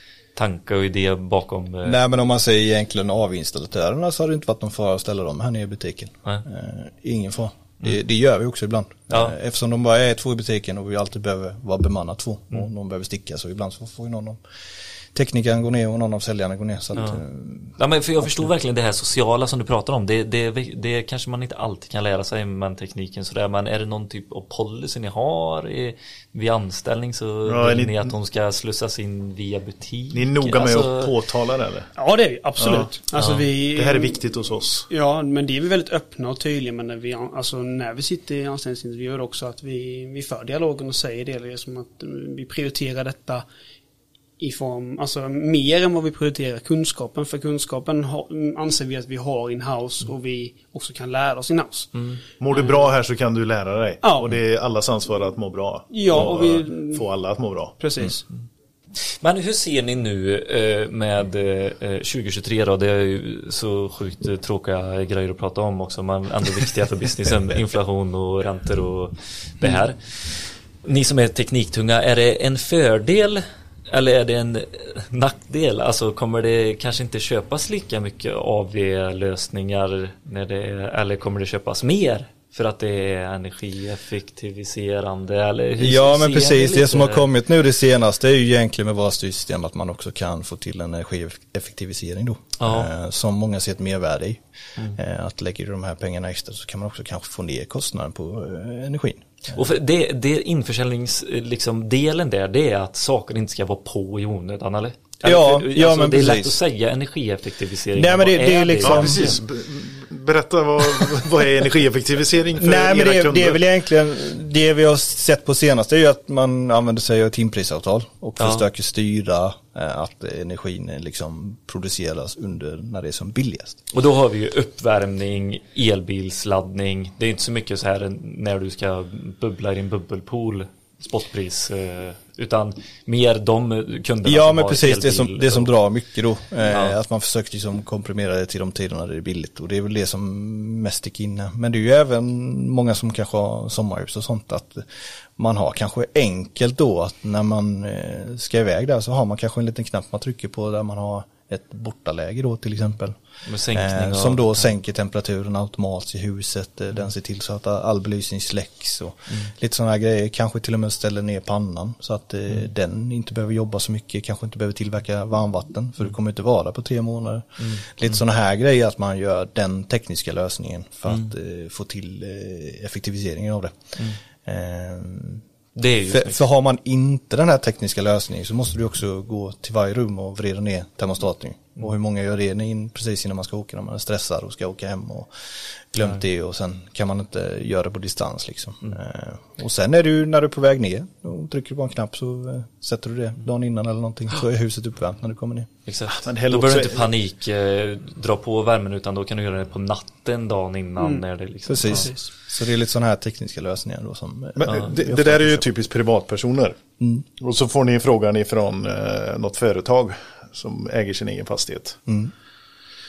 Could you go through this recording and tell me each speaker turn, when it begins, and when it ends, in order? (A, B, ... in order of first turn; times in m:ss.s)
0:00.4-0:02.0 A
0:01.8-0:14.4 B
0:15.1-0:18.5 B
0:16.9-0:17.2 A
0:17.8-0:31.1 A
0:27.4-0:28.1 C
0:30.1-0:31.9 C
0:32.0-0:34.2 D
0:32.6-0:32.9 C
0:33.1-0:33.4 A
0:33.7-0:34.9 C
0:34.9-0:43.4 D
0:44.4-0:52.9 D
0:51.9-0:52.2 A
0:52.4-0:57.8 C
0:54.0-0:54.4 D
0:55.9-0:57.0 D
0:57.8-0:58.2 D
0:59.2-1:27.2 A
1:25.8-1:34.4 B
1:32.6-1:32.9 A
1:34.9-1:39.6 B
1:39.5-1:49.4 A
1:45.2-1:46.6 B
1:47.9-1:49.4 B
1:48.8-1:53.6 C
1:52.6-2:03.8 B
1:58.4-1:58.7 A
2:03.9-2:15.7 A
2:14.2-2:24.8 B
2:16.7-2:17.0 A
2:25.4-2:33.2 B
2:33.4-2:34.7 A
2:33.7-2:53.9 B
2:47.6-2:47.9 A
2:54.4-2:55.4 B
2:55.8-2:56.4 A
2:56.0-3:05.3 B
3:05.9-3:15.7 B
3:15.9-3:22.1 A
3:16.1-3:17.1 C
3:21.7-3:25.6 B
3:21.8-3:22.2 D
3:24.6-3:26.8 C
3:27.0-3:27.2 B
3:27.4-3:32.0 C
3:32.1-3:32.3 B